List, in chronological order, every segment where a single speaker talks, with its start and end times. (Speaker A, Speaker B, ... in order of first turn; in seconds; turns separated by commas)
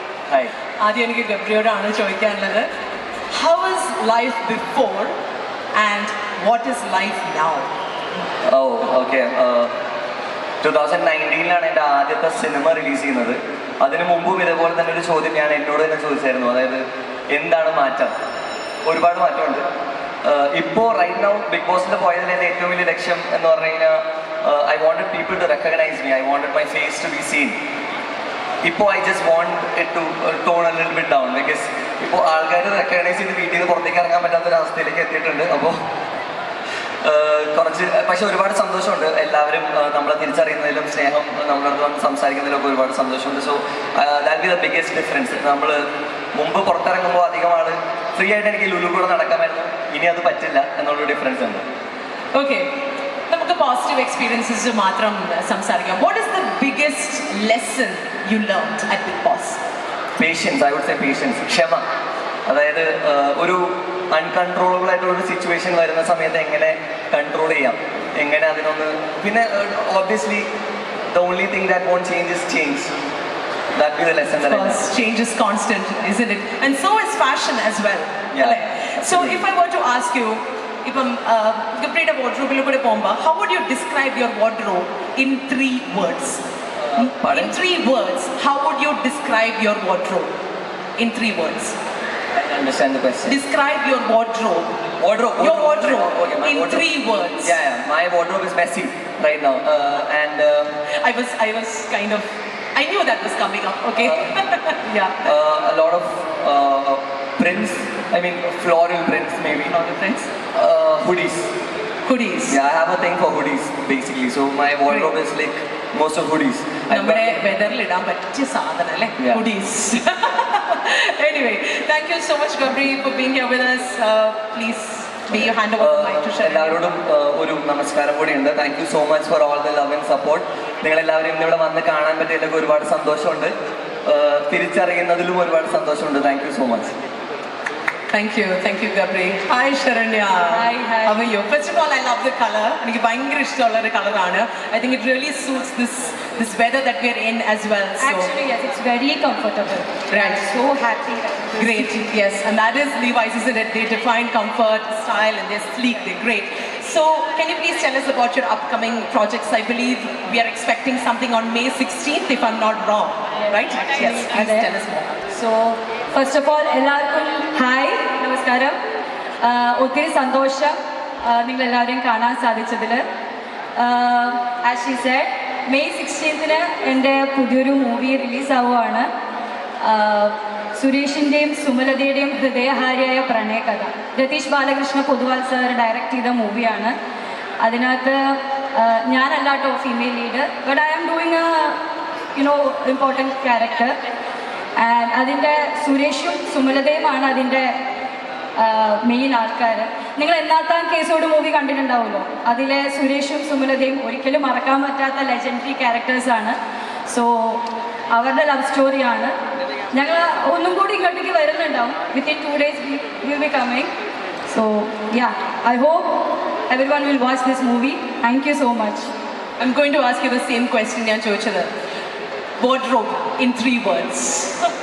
Speaker A: 0.8-2.7, Speaker A: 3.3-5.1, Speaker A: 5.7-7.7, Speaker B: 8.4-9.7, Speaker B: 10.6-18.1, Speaker B: 18.9-19.6, Speaker B: 20.2-27.5, Speaker B: 28.6-35.8, Speaker B: 37.0-45.8, Speaker B: 46.3-51.6, Speaker A: 52.3-52.7, Speaker A: 53.3-59.6, Speaker B: 60.2-61.8, Speaker B: 62.5-70.5, Speaker B: 71.1-72.9, Speaker B: 73.8-74.8, Speaker A: 74.4-86.4, Speaker B: 78.3-79.4, Speaker B: 86.8-87.5, Speaker A: 87.0-90.3, Speaker A: 91.0-91.8, Speaker B: 92.3-93.4, Speaker A: 93.2-94.7, Speaker B: 95.0-96.9, Speaker A: 95.4-97.5, Speaker B: 97.4-100.8, Speaker A: 100.9-105.3, Speaker B: 104.0-104.3, Speaker B: 105.2-109.7, Speaker A: 109.7-110.3, Speaker B: 110.5-111.5, Speaker A: 112.0-112.6, Speaker B: 112.5-117.4, Speaker A: 114.9-115.1, Speaker A: 116.9-126.8, Speaker B: 125.3-133.5, Speaker B: 134.1-136.9, Speaker A: 138.1-148.3, Speaker C: 140.5-141.2, Speaker C: 148.0-151.9, Speaker A: 150.1-150.5, Speaker A: 151.6-165.2, Speaker C: 163.9-164.7, Speaker C: 165.3-168.8, Speaker C: 169.4-173.0, Speaker C: 173.8-179.1, Speaker C: 179.8-186.9, Speaker C: 187.6-191.8, Speaker C: 192.3-193.9, Speaker C: 194.8-197.7, Speaker C: 198.6-206.6, Speaker C: 207.1-209.3, Speaker C: 209.9-213.9, Speaker C: 214.5-219.1, Speaker A: 219.6-221.7, Speaker A: 222.6-224.7